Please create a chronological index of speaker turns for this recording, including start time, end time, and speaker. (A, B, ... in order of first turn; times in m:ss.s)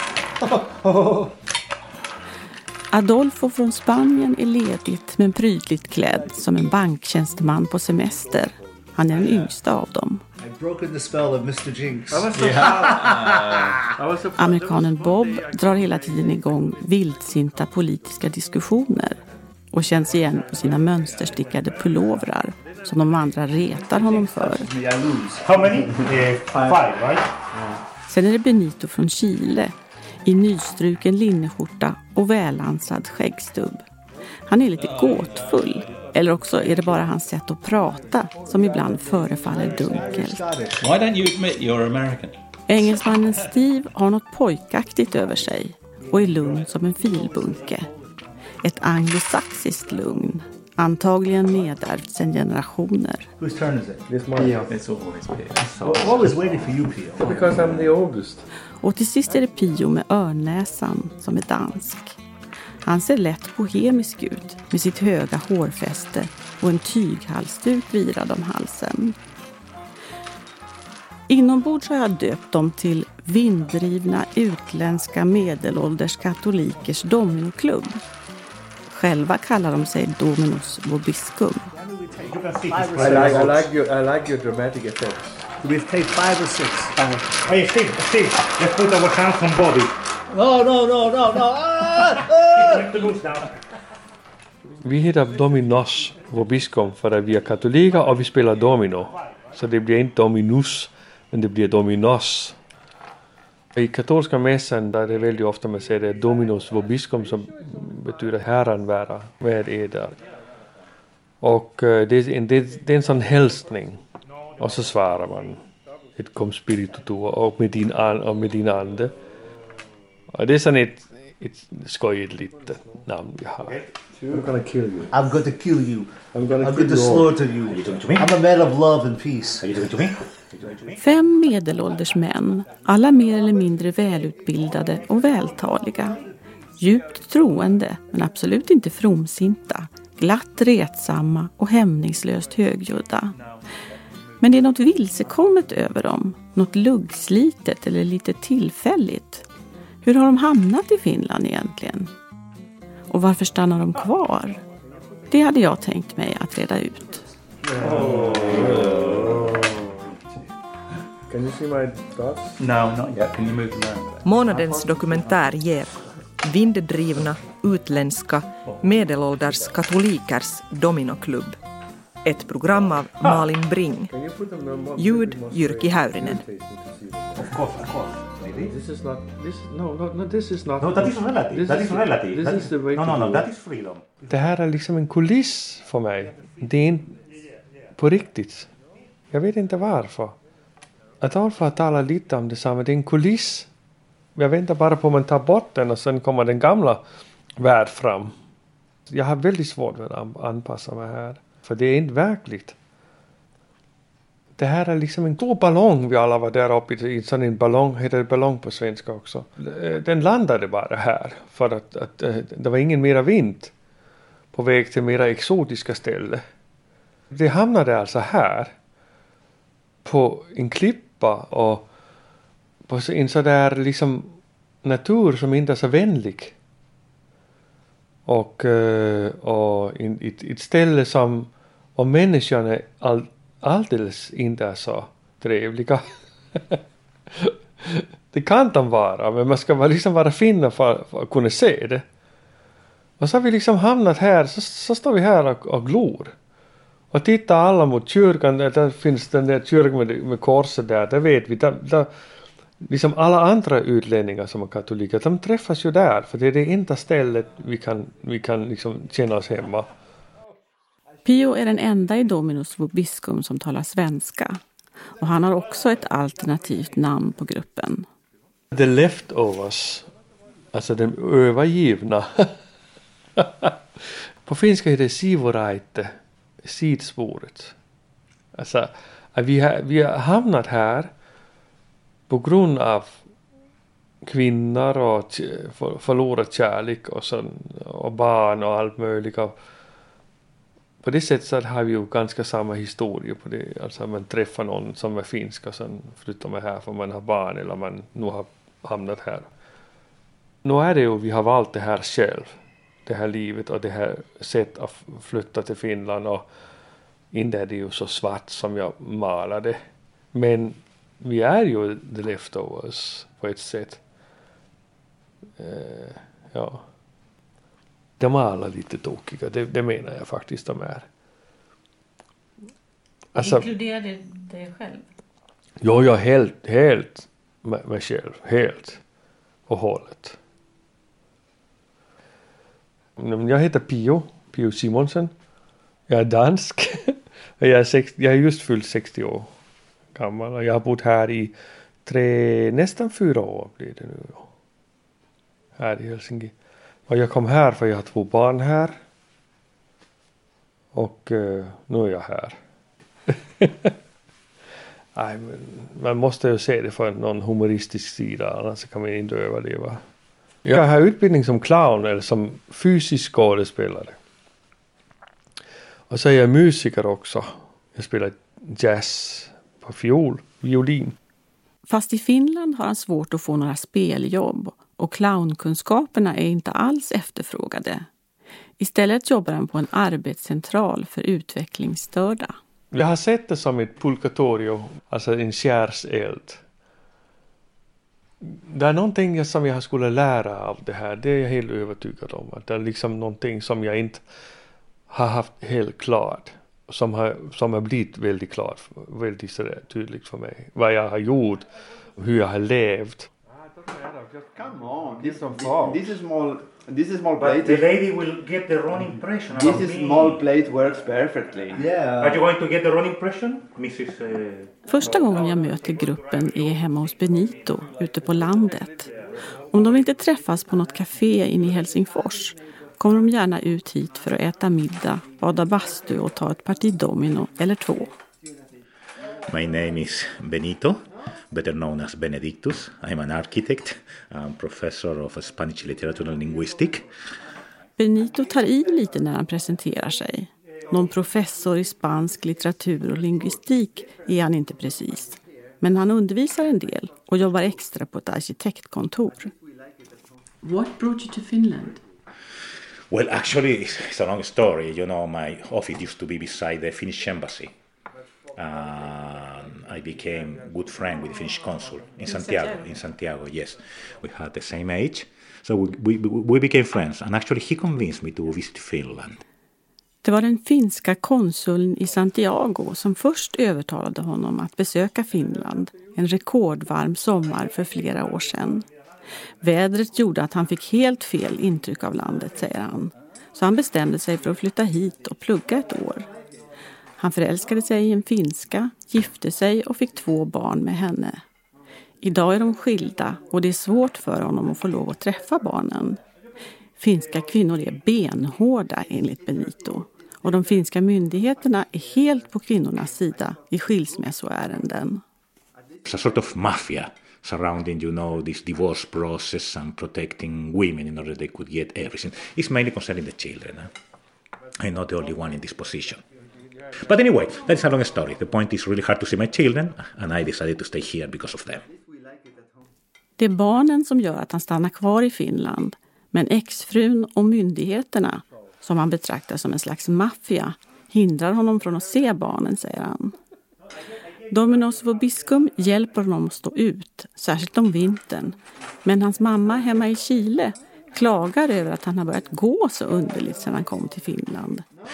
0:00.5-0:01.3 A
0:02.9-0:10.2 B
0:10.4-0:13.9 C
0:12.1-0:15.9 A
0:14.4-0:19.2 B
0:19.7-0:24.7 B
0:23.9-0:26.9 C
0:25.4-0:27.3 D
0:28.0-0:33.8 B
0:34.5-0:40.4 B
0:38.4-0:39.8 A
0:39.4-0:40.9 C
0:40.8-0:42.4 E
0:42.7-0:47.8 B
0:46.1-0:46.7 C
0:47.5-0:47.9 C
0:48.6-0:53.3 B
0:53.4-0:54.0 C
0:54.1-0:54.7 A
0:54.4-0:54.6 F
0:54.7-0:56.6 E
0:55.8-0:57.9 C
0:57.2-0:58.4 A
0:58.8-1:02.2 B
1:02.8-1:09.2 B
1:11.3-1:18.0 B
1:18.9-1:21.7 B
1:21.7-1:23.7 C
1:22.2-1:23.6 D
1:22.9-1:25.5 A
1:25.6-1:27.3 C
1:27.4-1:30.0 D
1:30.3-1:33.1 C
1:32.1-1:33.6 D
1:34.8-1:42.6 A
1:43.7-1:50.2 A
1:51.4-1:54.0 A
1:54.6-1:55.6 A
1:56.2-1:59.1 A
2:00.3-2:05.2 A
2:05.1-2:09.7 C
2:06.3-2:07.4 A
2:07.6-2:08.3 G
2:09.6-2:11.0 G
2:11.0-2:16.2 B
2:16.8-2:23.4 B
2:24.4-2:29.4 B
2:30.0-2:32.1 B
2:33.1-2:34.6 B
2:35.3-2:37.2 B
2:37.8-2:40.1 A
2:38.1-2:38.7 G
2:38.6-2:39.2 E
2:41.3-2:42.6 A
2:42.6-2:44.2 E
2:44.2-2:51.6 H
2:44.4-2:45.5 A
2:49.5-2:49.7 A
2:52.2-2:54.1 H
2:54.1-2:57.6 A
2:55.0-2:56.4 H
2:57.6-2:58.7 G
2:58.6-3:03.5 A
3:00.8-3:04.1 G
3:04.3-3:07.2 A
3:08.0-3:08.7 A
3:09.3-3:10.4 A
3:11.2-3:13.7 A
3:14.4-3:17.0 A
3:17.6-3:18.3 A
3:19.1-3:22.8 A
3:24.6-3:33.7 A
3:34.5-3:36.4 A
3:37.3-3:38.7 A
3:40.0-3:41.9 A
3:42.9-3:46.5 A
3:48.2-3:56.8 A
3:57.3-4:02.0 A
4:03.2-4:06.3 A
4:07.1-4:12.1 A
4:12.8-4:19.9 A
4:21.2-4:24.6 B
4:25.2-4:28.0 B
4:28.7-4:30.1 A
4:30.7-4:32.6 A
4:33.4-4:37.7 A
4:38.5-4:41.1 A
4:42.3-4:43.2 A
4:44.2-4:49.5 A
4:51.0-4:59.5 A
5:00.6-5:06.5 A
5:07.3-5:14.0 A
5:15.6-5:16.8 A
5:18.2-5:21.1 A
5:23.3-5:23.7 A
5:23.4-5:25.0 B
5:25.8-5:29.0 A
5:29.7-5:30.4 A
5:33.2-5:35.3 A
5:36.1-5:39.5 A
5:40.1-5:41.5 A
5:42.0-5:44.5 A
5:45.8-5:46.5 A
5:47.1-5:49.0 A
5:50.9-5:52.6 A
5:53.3-5:53.9 A
5:55.1-6:00.0 A
6:00.6-6:04.2 A
6:06.1-6:11.1 A
6:11.9-6:18.0 B
6:18.8-6:22.6 B
6:22.9-6:26.6 A
6:28.4-6:34.2 A
6:35.1-6:43.3 A
6:43.8-6:44.5 A
6:44.6-6:47.9 F
6:45.2-6:46.0 A
6:47.4-6:50.4 D
6:49.5-6:51.9 F
6:51.7-6:52.4 C
6:52.2-6:54.7 D
6:54.9-6:59.1 B
6:59.7-7:08.1 B
7:09.5-7:17.1 G
7:18.0-7:29.5 B
7:30.6-7:32.0 B
7:33.1-7:37.7 G
7:38.6-7:49.4 G
7:50.2-7:58.8 B
7:59.6-8:06.3 B
8:07.2-8:11.4 B
8:12.2-8:16.2 B
8:17.0-8:25.2 B
8:26.0-8:33.9 G
8:34.8-8:36.2 G
8:37.0-8:41.8 G
8:43.4-8:53.3 B
8:54.5-9:04.8 B